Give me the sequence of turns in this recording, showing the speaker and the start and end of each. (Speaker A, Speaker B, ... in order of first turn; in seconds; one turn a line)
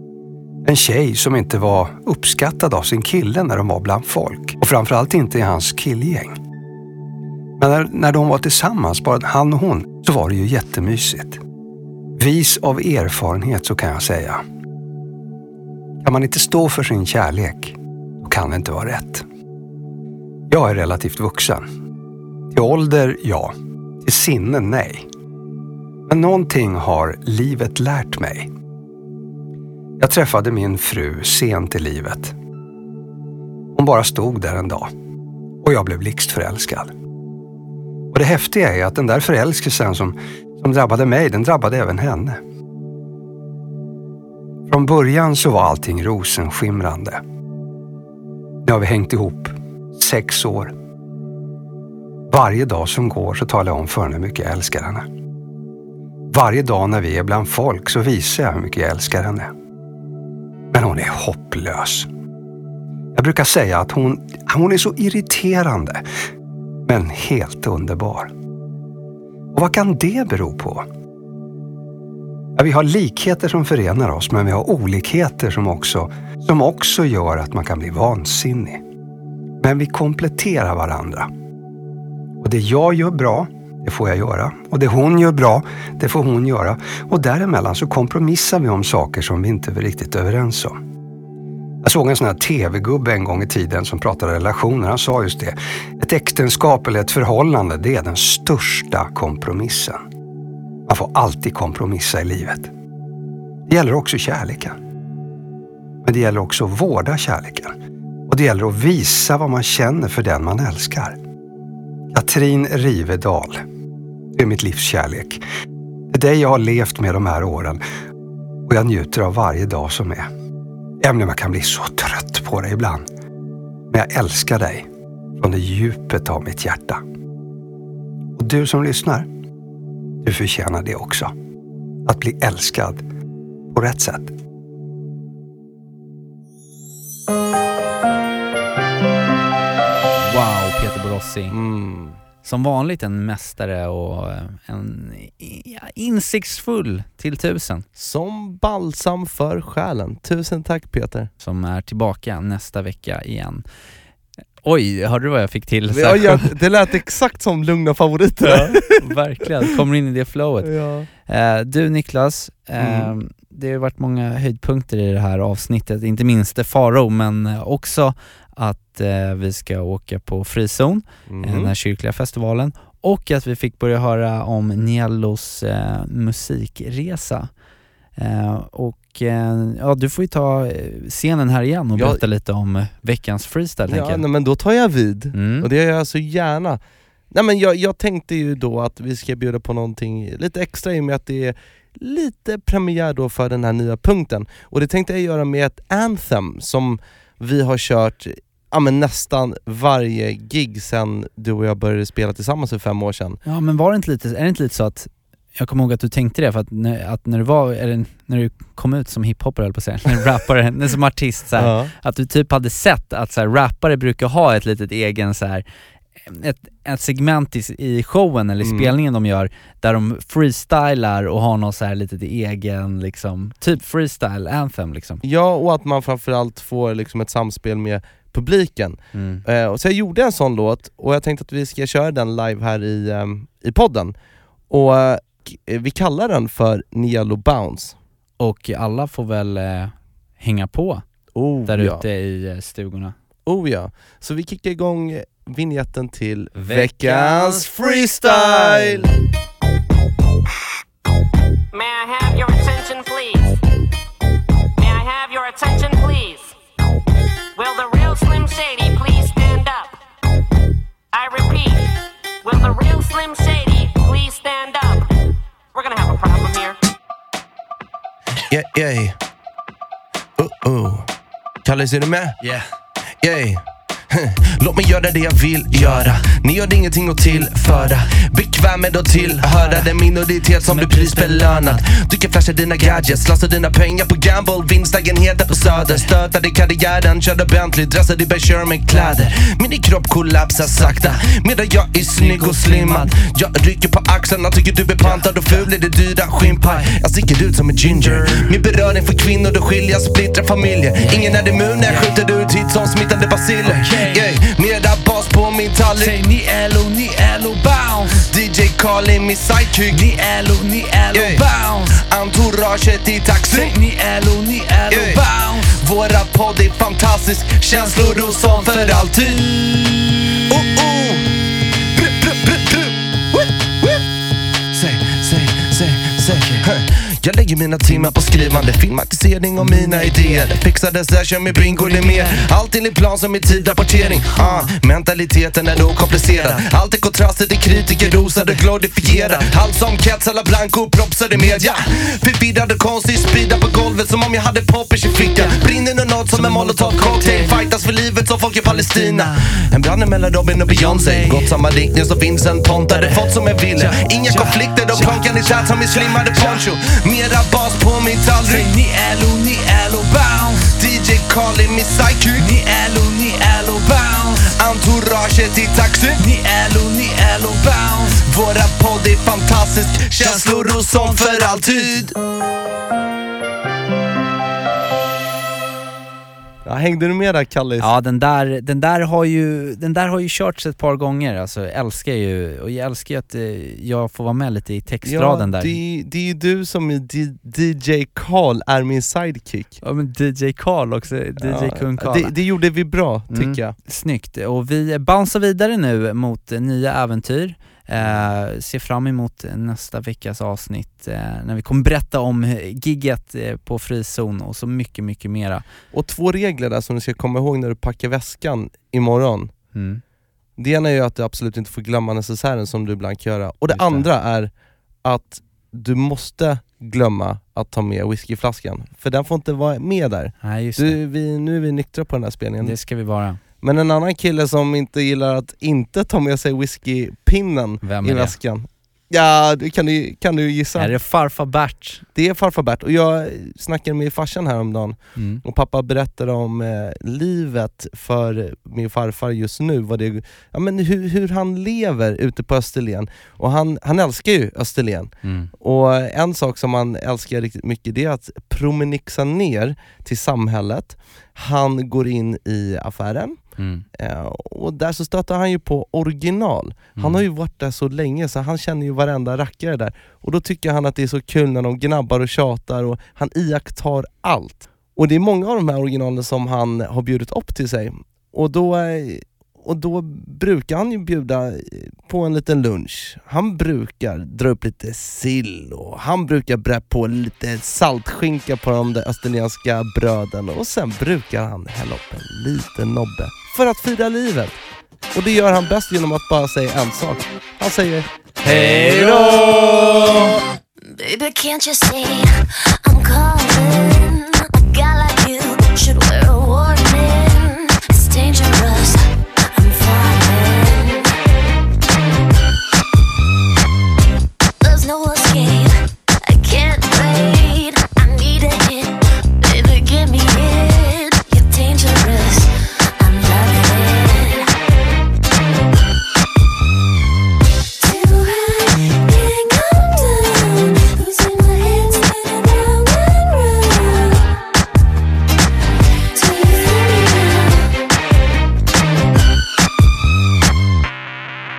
Speaker A: 0.6-6.4
Speaker A: 7.6-11.4
Speaker A: 12.2-14.4
Speaker A: 16.0-19.2
Speaker A: 20.5-21.7
Speaker A: 22.5-25.1
Speaker A: 26.1-28.5
Speaker A: 30.0-32.3
Speaker A: 33.7-34.9
Speaker A: 35.6-36.9
Speaker A: 38.1-42.4
Speaker A: 44.7-47.2
Speaker A: 48.6-50.7
Speaker A: 52.3-55.0
Speaker A: 56.3-59.5
Speaker A: 60.7-62.1
Speaker A: 63.1-66.1
Speaker A: 66.9-68.3
Speaker A: 69.5-70.9
Speaker A: 72.5-78.8
Speaker A: 79.6-81.3
Speaker A: 82.4-90.8
Speaker A: 91.8-100.0
Speaker A: 100.9-102.7
Speaker A: 103.7-104.8
Speaker A: 106.0-107.8
Speaker A: 108.3-111.2
Speaker A: 112.1-113.6
Speaker A: 114.3-115.4
Speaker A: 116.1-117.8
Speaker A: 118.7-120.3
Speaker A: 121.0-123.0
Speaker A: 123.9-124.9
Speaker A: 125.4-127.0
Speaker A: 128.3-129.3
Speaker A: 130.2-131.3
Speaker A: 132.0-133.0
Speaker A: 133.7-134.3
Speaker B: 140.2-141.5
Speaker C: 141.5-142.2
Speaker B: 142.4-147.8
Speaker C: 148.0-151.3
Speaker B: 151.4-153.6
Speaker B: 154.6-156.4
Speaker C: 155.9-159.1
Speaker B: 158.9-160.7
Speaker C: 160.6-161.1
Speaker B: 161.3-177.5
Speaker C: 162.8-163.1
Speaker C: 171.3-171.7
Speaker B: 178.2-184.2
Speaker C: 181.9-182.2
Speaker C: 183.9-186.8
Speaker B: 185.3-185.7
Speaker C: 187.3-203.4
Speaker B: 203.4-215.6
Speaker C: 211.6-211.9
Speaker B: 216.3-225.2
Speaker C: 218.6-218.9
Speaker C: 225.2-234.1
Speaker B: 229.1-229.4
Speaker C: 234.7-237.9
Speaker B: 238.4-241.0
Speaker C: 241.3-242.0
Speaker B: 241.7-243.1
Speaker C: 243.4-249.1
Speaker B: 246.6-249.1
Speaker D: 251.7-253.5
Speaker D: 254.8-256.5
Speaker D: 257.6-260.0
Speaker D: 261.1-261.9
Speaker D: 262.4-265.1
Speaker D: 265.7-266.8
Speaker C: 268.5-269.2
Speaker C: 270.4-271.1
Speaker C: 271.6-272.4
Speaker C: 273.2-306.2
Speaker B: 279.6-279.8
Speaker B: 280.7-281.8
Speaker B: 292.2-293.0
Speaker B: 295.0-295.6
Speaker B: 303.6-304.3
Speaker B: 305.9-308.2
Speaker C: 308.1-310.1
Speaker B: 309.9-312.0
Speaker C: 311.1-313.8
Speaker B: 313.5-315.7
Speaker C: 314.9-319.6
Speaker C: 320.5-321.3
Speaker C: 321.9-324.0
Speaker C: 324.7-358.7
Speaker B: 334.3-334.7
Speaker B: 346.3-347.5
Speaker B: 348.7-349.4
Speaker B: 350.7-351.5
Speaker B: 353.8-355.1
Speaker B: 355.9-356.6
Speaker B: 358.4-360.6
Speaker C: 360.6-362.5
Speaker B: 362.4-364.4
Speaker C: 364.3-366.2
Speaker B: 366.2-368.2
Speaker C: 368.2-372.1
Speaker C: 376.6-377.9
Speaker B: 377.8-385.8
Speaker C: 385.1-389.8
Speaker B: 389.8-392.3
Speaker C: 391.4-393.7
Speaker B: 393.3-405.6
Speaker C: 405.9-409.5
Speaker B: 409.7-410.0
Speaker C: 410.6-414.5
Speaker B: 413.7-414.1
Speaker C: 415.0-422.8
Speaker B: 420.4-421.0
Speaker B: 422.6-423.4
Speaker C: 423.6-430.9
Speaker B: 427.8-428.3
Speaker B: 430.8-432.0
Speaker C: 432.1-453.4
Speaker B: 435.1-435.4
Speaker B: 445.2-445.5
Speaker B: 453.6-453.8
Speaker C: 453.9-484.6
Speaker B: 457.0-457.2
Speaker C: 485.1-490.2
Speaker B: 489.0-489.4
Speaker E: 490.8-501.1
Speaker E: 504.6-514.5
Speaker E: 517.8-524.4
Speaker E: 526.1-527.7